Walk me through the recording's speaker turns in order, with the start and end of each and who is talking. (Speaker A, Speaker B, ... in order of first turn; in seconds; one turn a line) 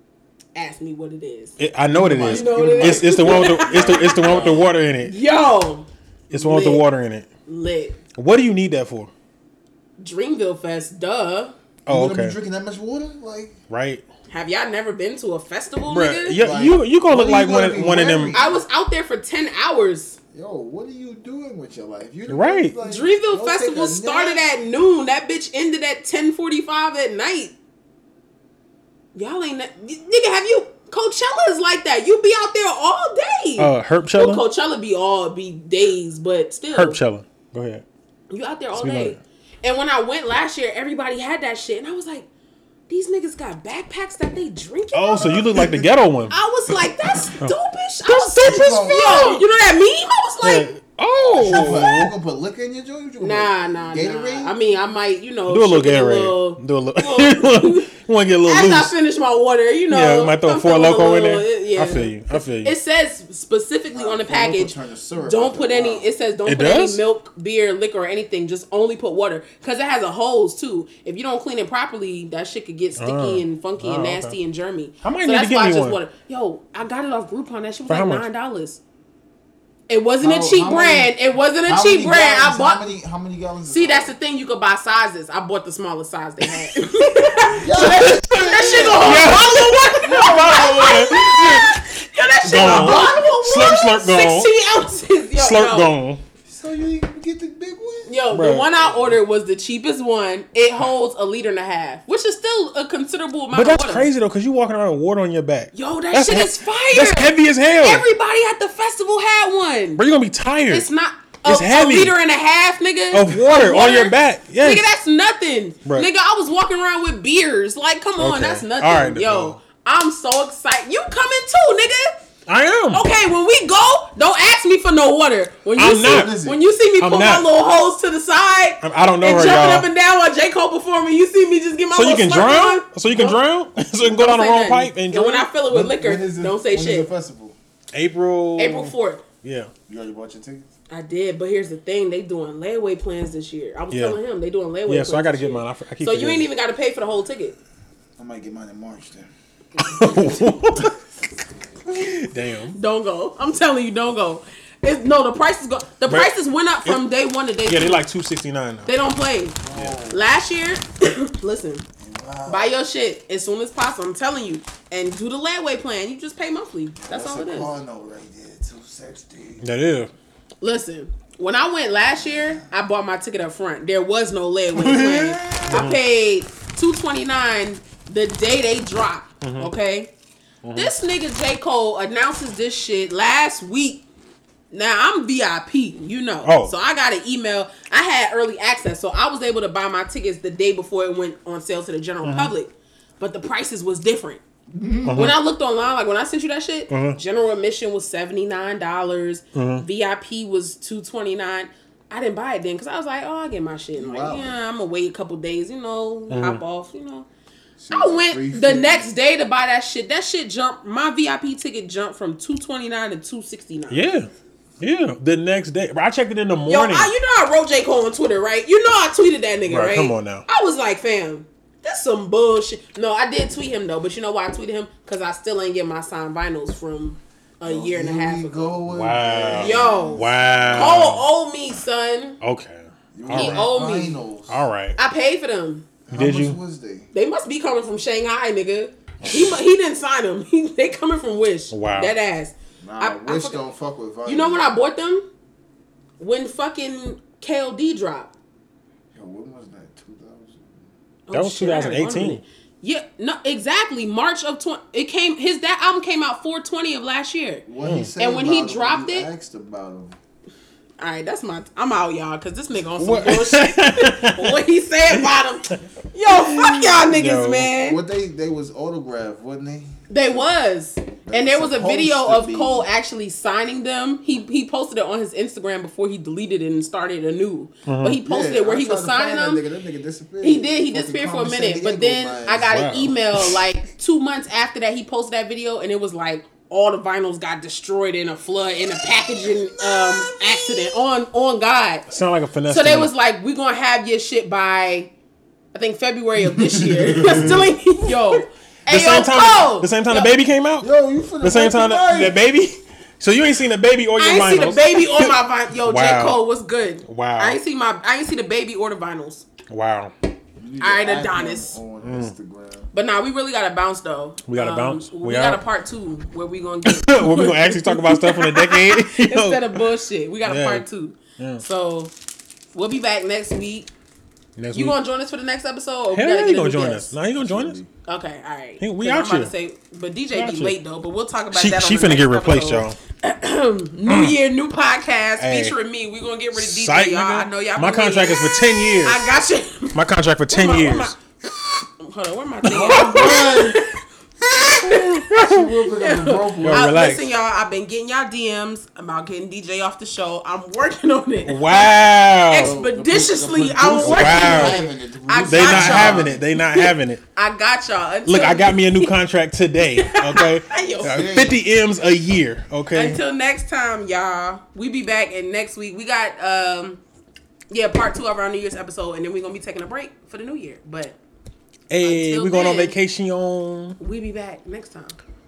Speaker A: 0.6-1.6
Speaker B: 1.6-5.2
Speaker C: 1.9-4.6
Speaker A: 2.3-6.8
Speaker B: 6.3-7.3
Speaker A: 7.5-8.0
Speaker B: 8.2-9.1
Speaker A: 10.0-11.6
Speaker B: 11.9-12.4
Speaker C: 11.9-13.6
Speaker B: 13.7-14.0
Speaker A: 14.3-16.4
Speaker B: 15.9-18.4
Speaker C: 16.4-18.6
Speaker A: 18.3-20.2
Speaker C: 20.3-24.4
Speaker B: 22.3-22.8
Speaker A: 22.8-27.5
Speaker A: 29.1-37.0
Speaker B: 33.6-34.4
Speaker B: 36.7-37.8
Speaker A: 38.3-42.3
Speaker B: 38.7-39.2
Speaker A: 42.9-45.5
Speaker B: 44.9-46.4
Speaker C: 45.2-45.8
Speaker A: 46.3-50.7
Speaker B: 47.4-49.4
Speaker C: 48.5-49.4
Speaker B: 50.4-52.1
Speaker C: 51.3-54.5
Speaker A: 51.6-51.9
Speaker A: 53.2-57.9
Speaker B: 55.5-58.9
Speaker A: 58.4-78.8
Speaker B: 59.9-62.8
Speaker C: 63.9-66.1
Speaker B: 66.5-67.0
Speaker B: 73.0-74.4
Speaker B: 75.0-76.0
Speaker B: 77.9-78.3
Speaker A: 79.9-82.9
Speaker C: 80.2-84.1
Speaker A: 83.7-95.9
Speaker C: 87.5-89.4
Speaker B: 88.7-91.8
Speaker B: 92.4-94.5
Speaker C: 92.5-93.3
Speaker B: 95.4-96.2
Speaker C: 96.5-98.2
Speaker A: 98.1-104.1
Speaker B: 98.3-98.7
Speaker C: 98.8-99.1
Speaker B: 103.5-108.1
Speaker A: 105.7-110.0
Speaker B: 110.0-110.9
Speaker A: 110.7-122.2
Speaker B: 111.4-112.2
Speaker B: 113.1-114.9
Speaker B: 118.2-119.6
Speaker B: 122.5-123.1
Speaker A: 122.9-133.4
Speaker B: 125.8-126.4
Speaker C: 126.0-126.6
Speaker B: 127.0-127.5
Speaker B: 128.8-129.9
Speaker B: 131.9-135.5
Speaker A: 134.0-137.1
Speaker C: 135.7-137.6
Speaker B: 137.9-139.7
Speaker A: 138.6-139.2
Speaker C: 139.9-140.7
Speaker A: 140.9-147.6
Speaker B: 143.9-144.2
Speaker B: 144.9-146.5
Speaker C: 148.2-149.3
Speaker B: 149.8-151.0
Speaker A: 149.9-150.5
Speaker B: 151.9-152.8
Speaker A: 152.7-158.0
Speaker B: 156.1-156.3
Speaker B: 157.7-158.9
Speaker A: 158.8-161.9
Speaker C: 159.6-160.2
Speaker C: 162.0-162.8
Speaker A: 162.5-167.7
Speaker C: 167.0-169.6
Speaker B: 169.6-170.1
Speaker A: 170.6-180.1
Speaker C: 174.8-175.9
Speaker B: 175.6-176.0
Speaker B: 179.4-179.7
Speaker B: 180.6-180.9
Speaker A: 180.8-184.1
Speaker A: 184.7-194.4
Speaker B: 186.4-186.7
Speaker B: 192.2-192.5
Speaker C: 194.7-195.3
Speaker B: 195.1-195.4
Speaker A: 195.1-207.3
Speaker B: 196.9-197.2
Speaker B: 199.6-199.8
Speaker C: 204.0-204.6
Speaker B: 206.3-206.6
Speaker C: 207.8-209.1
Speaker A: 207.9-214.0
Speaker B: 213.9-214.3
Speaker B: 214.8-217.1
Speaker A: 216.7-228.8
Speaker B: 219.7-220.4
Speaker C: 227.6-231.1
Speaker B: 228.9-231.3
Speaker A: 229.6-232.4
Speaker B: 232.4-233.7
Speaker C: 233.1-234.6
Speaker A: 233.3-234.2
Speaker B: 234.5-235.0
Speaker A: 235.0-235.9
Speaker C: 236.1-237.1
Speaker B: 236.1-236.6
Speaker A: 237.1-243.6
Speaker B: 241.7-242.2
Speaker C: 242.8-244.7
Speaker A: 244.2-245.2
Speaker A: 246.2-248.3
Speaker C: 249.1-250.9
Speaker A: 251.3-257.6
Speaker B: 251.3-252.4
Speaker C: 257.7-260.2
Speaker B: 257.8-258.1
Speaker A: 258.2-259.3
Speaker A: 261.0-268.0
Speaker B: 263.0-264.6
Speaker B: 266.3-267.7
Speaker C: 267.8-270.5
Speaker A: 270.1-279.6
Speaker C: 271.2-272.9
Speaker B: 277.9-278.2
Speaker C: 278.2-282.7
Speaker A: 280.4-292.1
Speaker B: 282.6-283.6
Speaker C: 289.4-291.0
Speaker B: 292.1-293.1
Speaker A: 292.7-295.1
Speaker A: 295.7-300.3
Speaker C: 296.5-297.7
Speaker B: 298.9-305.3
Speaker C: 300.8-302.4
Speaker A: 304.2-309.5
Speaker B: 305.9-306.4
Speaker B: 307.1-307.6
Speaker B: 309.7-310.1
Speaker C: 310.6-312.9
Speaker A: 310.8-311.8
Speaker B: 312.0-312.3
Speaker A: 312.9-322.1
Speaker B: 314.5-315.6
Speaker B: 316.9-319.8
Speaker B: 320.4-320.9
Speaker B: 321.4-321.6
Speaker A: 322.7-323.9
Speaker B: 324.6-325.0
Speaker A: 324.7-327.1
Speaker B: 326.1-327.8
Speaker C: 327.4-327.9
Speaker A: 328.1-340.0
Speaker B: 328.8-329.5
Speaker B: 330.3-330.8
Speaker B: 331.5-333.0
Speaker B: 334.1-334.4
Speaker B: 335.4-335.8
Speaker B: 336.5-339.3
Speaker B: 339.9-341.1
Speaker A: 340.5-345.3
Speaker B: 342.6-343.6
Speaker C: 342.7-343.8
Speaker B: 344.8-345.7
Speaker C: 345.3-347.0
Speaker A: 346.0-359.1
Speaker B: 346.6-347.3
Speaker B: 351.5-352.8
Speaker C: 352.6-356.4
Speaker B: 354.0-354.8
Speaker B: 355.5-357.2
Speaker B: 358.3-363.2
Speaker A: 360.0-361.3
Speaker C: 361.0-361.6
Speaker A: 362.9-367.0
Speaker A: 367.7-371.2
Speaker B: 371.9-374.0
Speaker A: 372.0-373.0
Speaker A: 374.0-375.2